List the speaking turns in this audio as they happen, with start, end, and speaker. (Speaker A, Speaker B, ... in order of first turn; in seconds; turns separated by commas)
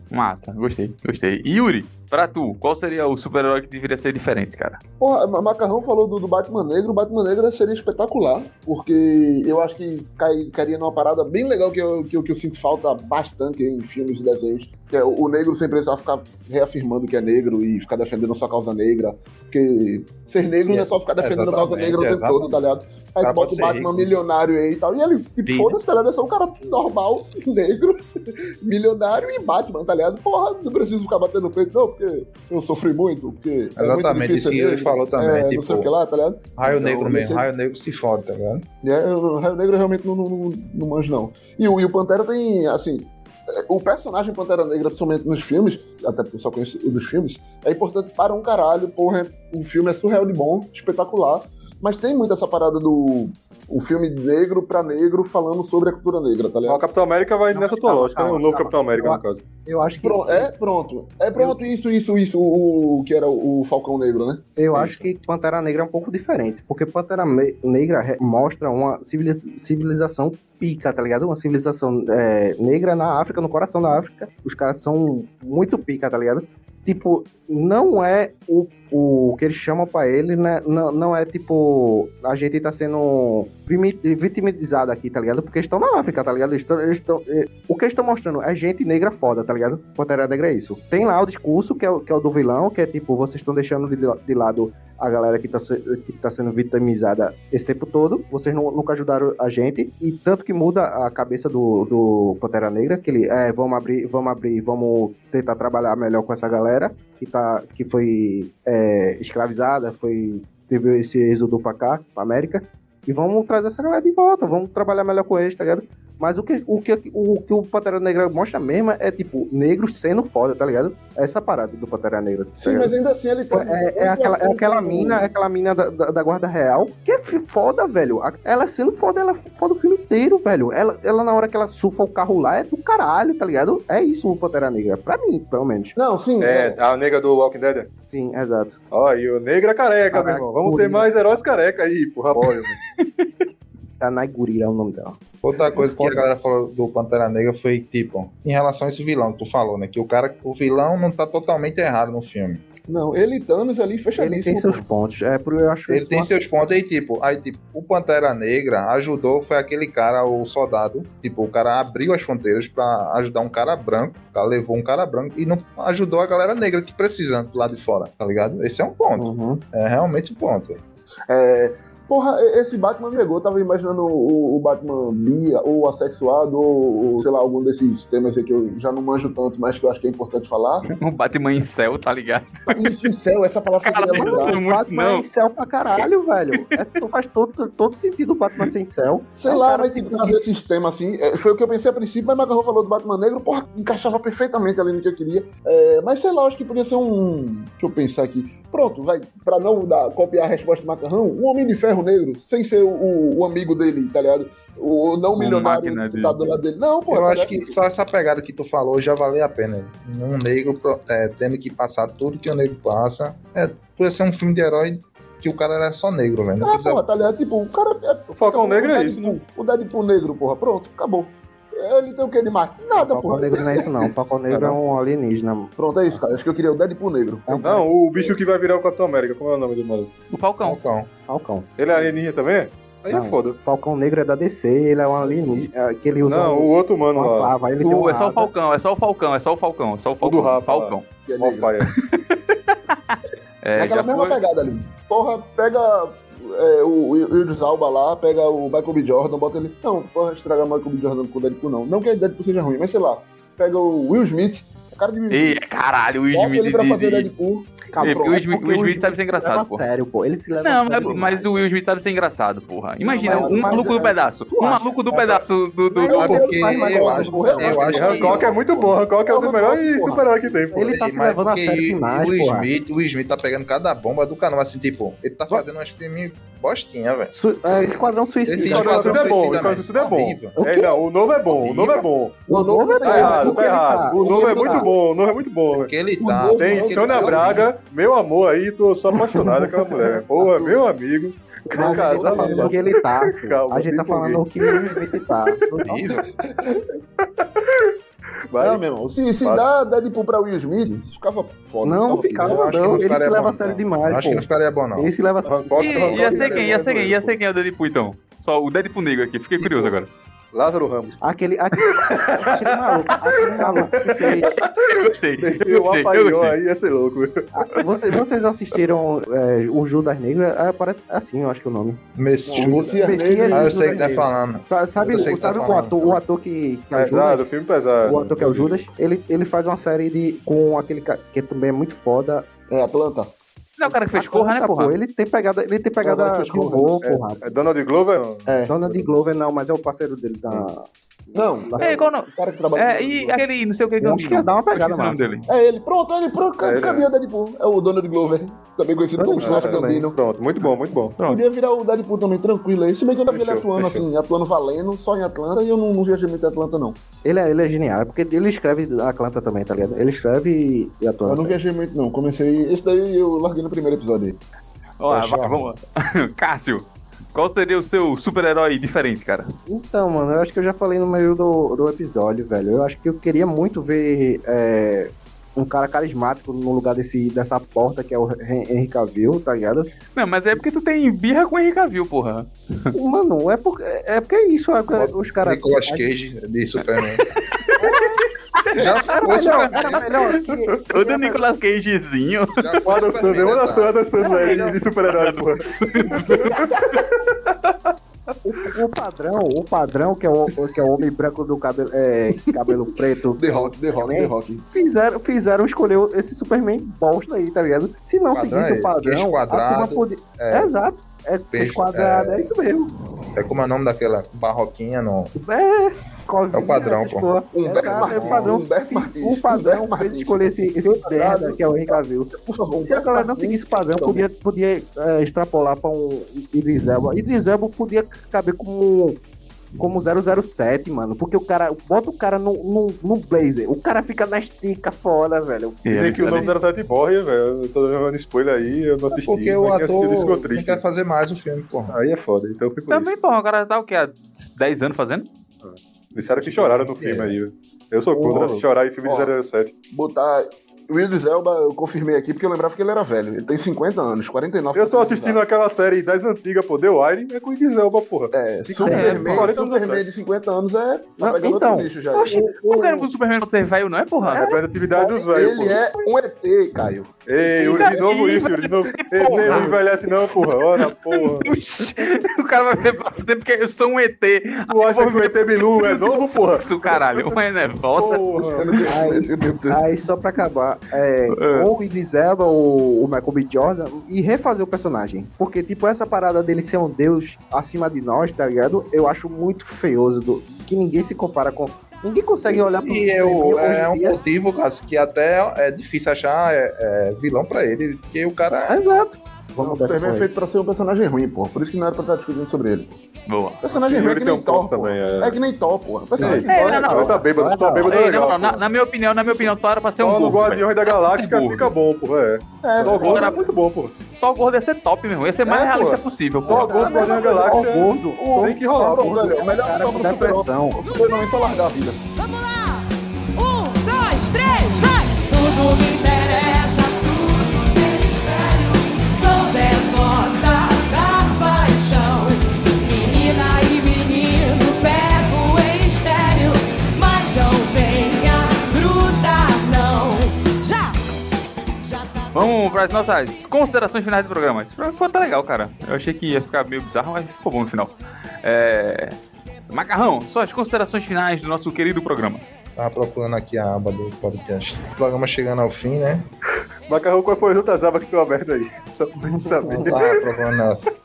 Speaker A: 0.1-4.8, Speaker B: 5.0-37.4, Speaker C: 20.7-22.5, Speaker C: 23.2-24.1, Speaker C: 25.4-25.8, Speaker C: 33.8-35.9, Speaker C: 36.6-38.6, Speaker B: 38.8-56.8, Speaker D: 56.6-59.4, Speaker E: 57.5-60.5, Speaker B: 60.0-64.5, Speaker E: 61.4-61.6, Speaker E: 64.6-122.9, Speaker D: 64.7-65.1, Speaker B: 122.6-125.3, Speaker E: 123.5-136.0, Speaker B: 136.0-136.8, Speaker D: 136.4-137.9, Speaker E: 138.1-138.8, Speaker D: 138.9-142.8, Speaker E: 140.1-141.1, Speaker A: 143.0-143.3, Speaker E: 144.0-146.2, Speaker C: 145.4-152.6, Speaker B: 152.9-154.8, Speaker E: 154.2-156.5, Speaker C: 155.9-170.8, Speaker E: 169.2-169.6, Speaker B: 171.3-180.9, Speaker A: 181.0-183.1, Speaker B: 182.7-184.6, Speaker A: 183.8-185.2, Speaker E: 184.1-190.4, Speaker B: 189.4-207.8, Speaker A: 205.4-206.4, Speaker C: 207.1-217.0, Speaker B: 216.6-224.1, Speaker D: 218.3-219.4, Speaker E: 222.9-225.7, Speaker B: 225.8-227.8, Speaker E: 227.5-227.9, Speaker D: 227.6-230.1, Speaker A: 230.3-230.8, Speaker C: 230.6-231.1, Speaker E: 231.3-231.7, Speaker D: 231.8-233.6, Speaker E: 233.1-238.5, Speaker D: 236.2-237.5, Speaker A: 237.8-241.1, Speaker D: 240.2-241.9, Speaker B: 241.2-241.7, Speaker A: 241.8-244.4, Speaker B: 243.8-255.6, Speaker A: 255.3-257.3, Speaker B: 256.3-258.3, Speaker E: 257.9-261.7, Speaker A: 258.0-259.9, Speaker A: 260.6-266.4, Speaker E: 263.0-265.0, Speaker B: 263.1-264.1, Speaker C: 265.1-265.4, Speaker E: 265.9-268.2, Speaker C: 266.1-268.5, Speaker B: 266.2-270.2, Speaker D: 267.9-270.9, Speaker E: 270.7-272.7, Speaker C: 270.8-277.3, Speaker E: 277.3-279.7, Speaker C: 278.5-280.6, Speaker D: 278.6-282.4, Speaker E: 280.6-281.0, Speaker E: 281.7-284.9, Speaker B: 282.5-284.9, Speaker D: 283.1-285.9, Speaker C: 285.7-287.7, Speaker B: 286.2-287.7, Speaker D: 286.6-295.6, Speaker E: 289.2-290.8, Speaker E: 291.7-296.1, Speaker B: 291.7-292.8, Speaker C: 295.9-296.2, Speaker B: 296.4-296.8, Speaker D: 297.2-297.9, Speaker D: 298.5-298.8, Speaker B: 298.6-302.9, Speaker D: 299.4-299.7, Speaker E: 301.8-306.7, Speaker C: 302.4-305.1, Speaker D: 305.5-307.4, Speaker A: 305.8-310.1, Speaker B: 306.2-306.8, Speaker D: 310.5-311.2, Speaker E: 311.2-314.6, Speaker D: 311.8-317.5, Speaker A: 314.8-316.6, Speaker E: 317.6-322.0, Speaker C: 322.2-326.2, Speaker B: 322.5-323.9, Speaker E: 322.6-327.5, Speaker D: 326.9-328.8, Speaker E: 328.0-332.5, Speaker B: 332.7-333.3, Speaker A: 333.8-334.9, Speaker E: 333.8-337.5, Speaker B: 336.0-337.0, Speaker D: 337.0-338.5, Speaker B: 338.5-339.1, Speaker E: 338.7-342.1, Speaker B: 341.4-343.4, Speaker A: 341.8-345.5, Speaker E: 344.0-345.4, Speaker B: 345.5-350.2, Speaker D: 346.6-347.1, Speaker E: 349.2-350.1, Speaker D: 349.4-351.2, Speaker B: 351.2-357.0, Speaker D: 353.3-354.0, Speaker E: 357.2-361.6, Speaker B: 361.3-364.4, Speaker A: 365.0-369.5, Speaker C: 365.1-365.7, Speaker E: 369.7-379.9, Speaker A: 380.1-382.9, Speaker E: 382.9-386.1, Speaker C: 384.9-387.2, Speaker A: 387.5-388.1, Speaker E: 387.8-388.2, Speaker A: 388.6-389.2, Speaker C: 388.8-390.1, Speaker E: 389.1-391.5, Speaker A: 390.3-392.6, Speaker C: 392.6-394.0, Speaker D: 392.9-397.8, Speaker A: 394.2-397.1, Speaker E: 394.4-394.7, Speaker E: 398.4-412.9, Speaker B: 402.4-404.7, Speaker C: 408.3-410.7, Speaker C: 411.5-412.5, Speaker C: 413.3-415.3, Speaker E: 415.4-429.2, Speaker C: 416.5-418.6, Speaker B: 417.5-424.3, Speaker E: 429.8-435.9, Speaker A: 435.9-436.5, Speaker D: 435.9-440.8, Speaker C: 439.1-442.0, Speaker D: 441.9-443.1, Speaker A: 442.9-445.3, Speaker D: 445.6-449.7, Speaker C: 446.4-447.4, Speaker B: 448.1-449.3, Speaker B: 449.9-455.4, Speaker D: 454.7-460.1, Speaker B: 458.3-462.4, Speaker E: 458.8-459.5, Speaker E: 461.2-463.1, Speaker A: 462.1-464.5, Speaker E: 464.2-466.0, Speaker D: 464.4-465.8, Speaker B: 465.3-468.1, Speaker D: 467.3-471.5, Speaker A: 467.7-469.8, Speaker E: 469.4-469.8, Speaker A: 470.8-478.8, Speaker D: 474.7-477.4, Speaker D: 478.0-478.7, Speaker B: 478.4-479.9, Speaker E: 478.9-494.2, Speaker A: 481.3-481.7, Speaker C: 492.7-498.8, Speaker E: 498.7-500.3, Speaker B: 499.6-503.0, Speaker A: 503.3-503.6, Speaker B: 503.6-507.8, Speaker D: 503.7-505.4, Speaker D: 506.2-508.8, Speaker A: 506.5-507.2, Speaker E: 507.2-508.0, Speaker A: 507.8-511.7, Speaker D: 510.0-513.9, Speaker B: 512.6-513.5, Speaker A: 512.8-513.4, Speaker A: 514.2-516.9, Speaker B: 515.4-517.7, Speaker E: 516.5-520.9, Speaker D: 516.5-519.3, Speaker B: 518.7-522.0, Speaker F: 522.2-541.0, Speaker F: 541.8-542.6, Speaker A: 542.3-549.2, Speaker A: 549.7-552.4, Speaker C: 552.8-556.3, Speaker D: 556.9-560.3, Speaker E: 559.2-560.0, Speaker C: 559.7-560.9